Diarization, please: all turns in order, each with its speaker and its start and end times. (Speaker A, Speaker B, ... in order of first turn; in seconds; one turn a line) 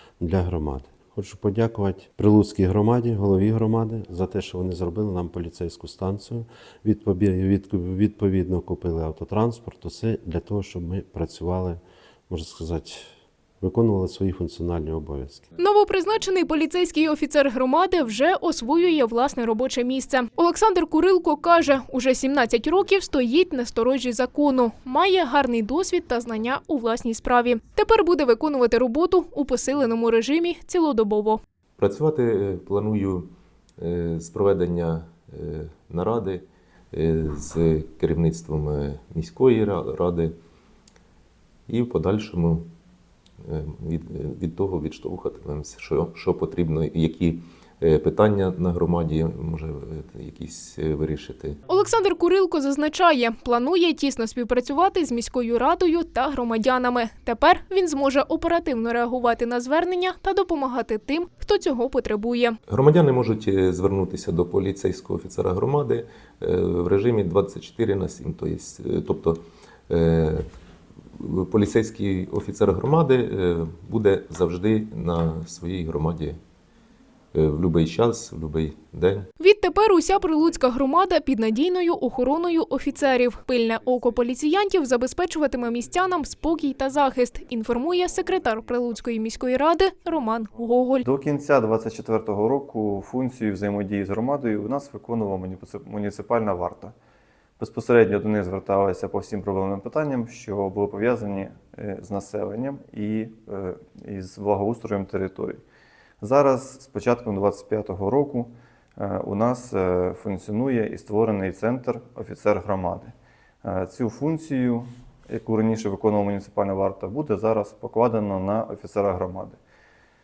Speaker A: 0.2-15.5
Speaker B: 15.6-31.4
Speaker C: 31.8-40.4
Speaker C: 41.7-42.7
Speaker C: 43.4-51.6
Speaker B: 51.7-62.6
Speaker C: 62.7-70.5
Speaker C: 71.1-76.4
Speaker C: 77.3-79.3
Speaker B: 79.4-91.1
Speaker D: 91.0-96.9
Speaker D: 97.6-105.6
Speaker D: 106.2-113.1
Speaker D: 113.6-119.6